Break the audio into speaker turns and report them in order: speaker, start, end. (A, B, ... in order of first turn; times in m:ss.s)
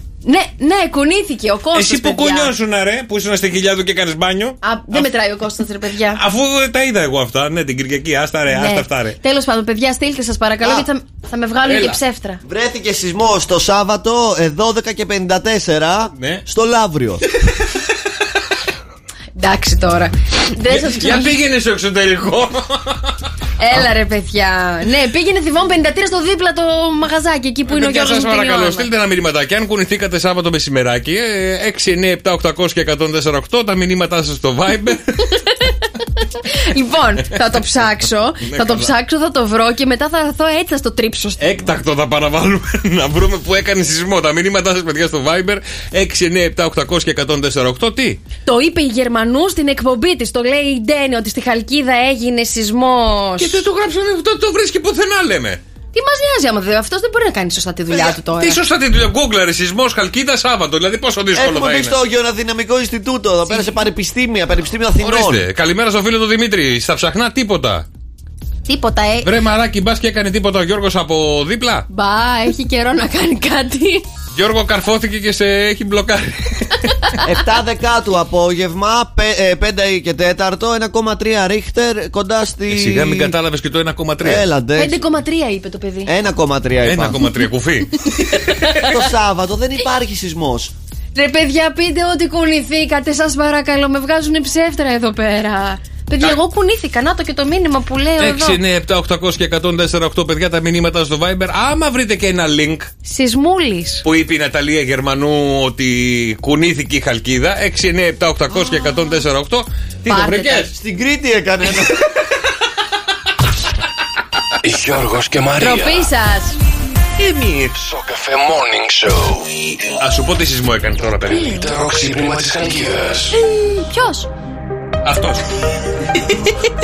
0:00.2-0:02.5 A
0:01.7-0:05.1 B
0:04.6-0:06.2 A
0:06.1-0:09.2 B
0:08.5-0:12.4 A
0:11.6-0:12.0 B
0:12.4-0:17.2 C
0:16.1-0:16.4 B
0:19.4-0:21.3 A
0:20.6-0:23.1 B
0:23.6-0:28.9 A
0:27.7-0:35.3 B
0:36.5-0:41.4 A
0:38.4-0:38.9 B
0:41.4-0:48.2 B
0:48.4-0:53.6 A
0:53.4-0:55.6 B
0:55.9-0:58.6 A
0:57.9-1:02.0 B
1:01.3-1:05.4 C
1:05.0-1:07.8 B
1:08.7-1:09.3 A
1:09.2-1:11.8 B
1:11.9-1:14.0 A
1:14.3-1:17.2 B
1:17.2-1:23.3 C
1:22.7-1:24.5 B
1:24.2-1:25.0 C
1:24.8-1:26.1 A
1:26.0-1:27.2 C
1:26.8-1:28.9 B
1:28.2-1:28.8 A
1:28.8-1:30.7 C
1:31.2-1:38.6 A
1:38.2-1:42.9 B
1:43.0-1:44.0 A
1:44.0-1:50.7 B
1:48.5-1:49.2 A
1:50.1-1:50.7 A
1:50.8-1:52.0 C
1:54.6-1:56.1 D
1:55.6-1:56.6 A
1:57.2-1:57.7 B
1:57.7-1:59.7 D
2:00.0-2:01.6 B
2:01.3-2:01.6 A
2:01.5-2:03.4 D
2:03.3-2:04.3 A
2:05.0-2:05.4 B